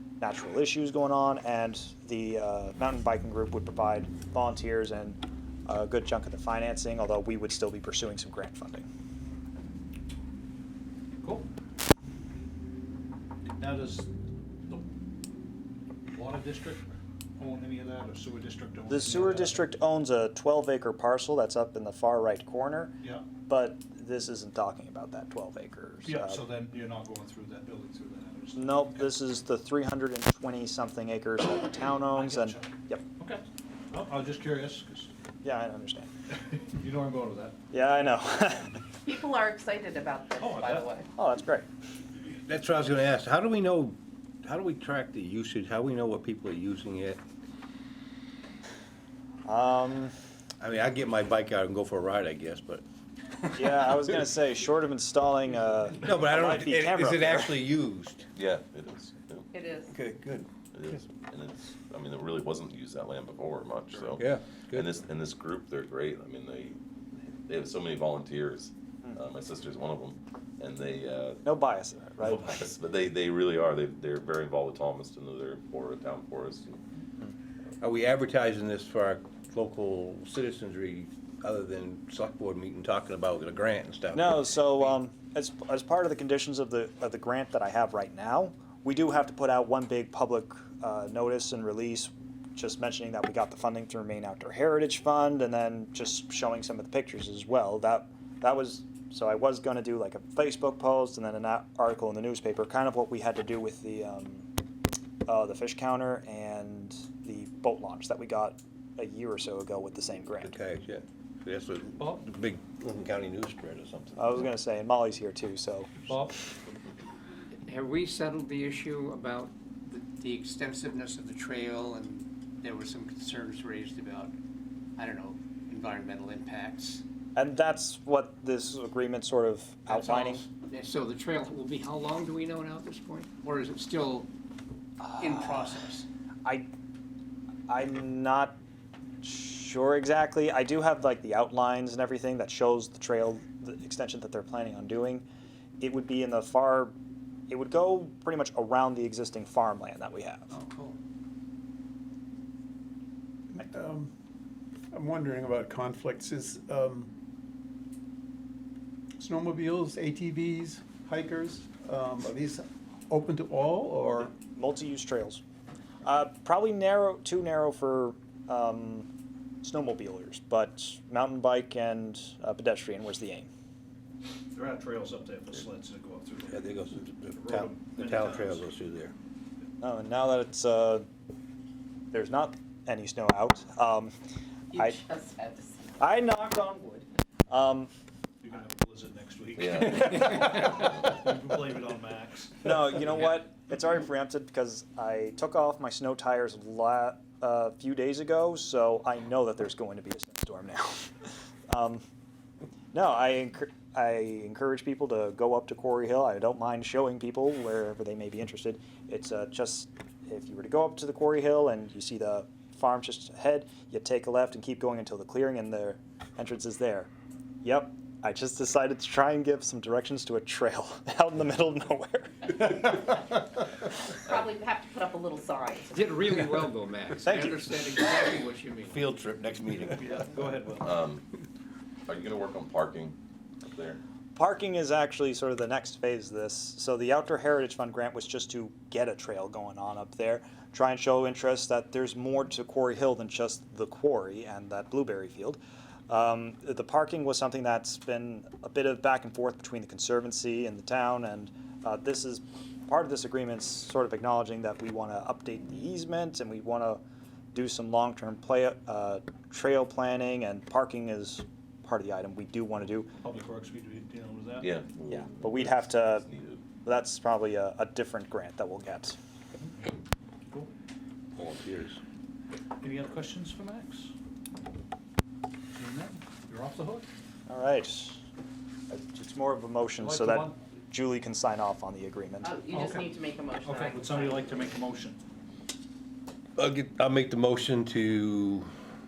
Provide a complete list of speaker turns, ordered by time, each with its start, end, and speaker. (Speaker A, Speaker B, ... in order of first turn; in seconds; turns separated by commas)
Speaker A: 0.2-8.8, Speaker B: 13.5-14.1, Speaker B: 16.1-19.6, Speaker A: 18.9-26.4, Speaker B: 26.0-29.0, Speaker A: 28.5-33.0, Speaker B: 32.1-35.1, Speaker A: 35.4-36.1, Speaker B: 36.3-37.6, Speaker A: 37.7-38.8, Speaker C: 39.0-41.1, Speaker B: 40.3-40.9, Speaker A: 41.1-41.7, Speaker D: 42.4-47.2, Speaker A: 49.5-50.1, Speaker D: 50.6-52.8, Speaker A: 53.5-57.6, Speaker D: 56.0-58.3, Speaker E: 58.3-59.5, Speaker C: 59.5-59.9, Speaker D: 59.9-61.0, Speaker E: 60.7-71.4, Speaker D: 64.2-64.9, Speaker A: 71.4-72.6, Speaker E: 72.2-76.8, Speaker D: 77.8-84.6, Speaker A: 84.1-104.5, Speaker A: 105.3-110.5, Speaker D: 110.4-114.5, Speaker B: 112.0-112.2, Speaker A: 114.2-116.1, Speaker B: 116.0-116.5, Speaker F: 117.6-124.3, Speaker F: 125.0-127.0, Speaker A: 127.3-130.4, Speaker F: 129.9-134.3, Speaker A: 135.0-135.7, Speaker F: 135.1-136.1, Speaker A: 137.7-138.6, Speaker A: 139.2-145.2, Speaker A: 145.8-146.9, Speaker A: 147.5-150.5, Speaker F: 150.5-151.0, Speaker G: 153.5-154.1, Speaker G: 154.9-157.1, Speaker G: 159.2-164.3, Speaker A: 164.2-165.4, Speaker A: 166.0-169.1, Speaker A: 169.6-173.5, Speaker B: 174.5-176.7, Speaker D: 176.5-179.1, Speaker B: 177.3-178.6, Speaker A: 179.8-181.1, Speaker A: 182.1-184.1, Speaker C: 184.7-186.0, Speaker A: 186.0-187.9, Speaker B: 188.4-192.8, Speaker E: 189.6-190.3, Speaker A: 192.6-201.1, Speaker A: 201.7-202.0, Speaker A: 202.9-217.1, Speaker A: 217.6-223.3, Speaker C: 224.2-225.8, Speaker D: 225.9-227.3, Speaker F: 227.2-229.0, Speaker A: 227.2-227.8, Speaker D: 228.8-230.2, Speaker B: 229.9-231.0, Speaker E: 230.7-231.2, Speaker E: 232.1-233.2, Speaker E: 233.7-234.0, Speaker A: 234.3-257.0, Speaker A: 257.5-263.1, Speaker B: 263.2-264.7, Speaker E: 264.6-266.6, Speaker A: 265.1-266.3, Speaker A: 266.8-269.2, Speaker D: 271.3-272.0, Speaker B: 272.8-274.1, Speaker B: 275.7-277.1, Speaker A: 277.5-278.2, Speaker A: 278.9-282.5, Speaker B: 280.0-280.6, Speaker C: 282.4-284.4, Speaker B: 282.7-285.2, Speaker D: 286.6-288.7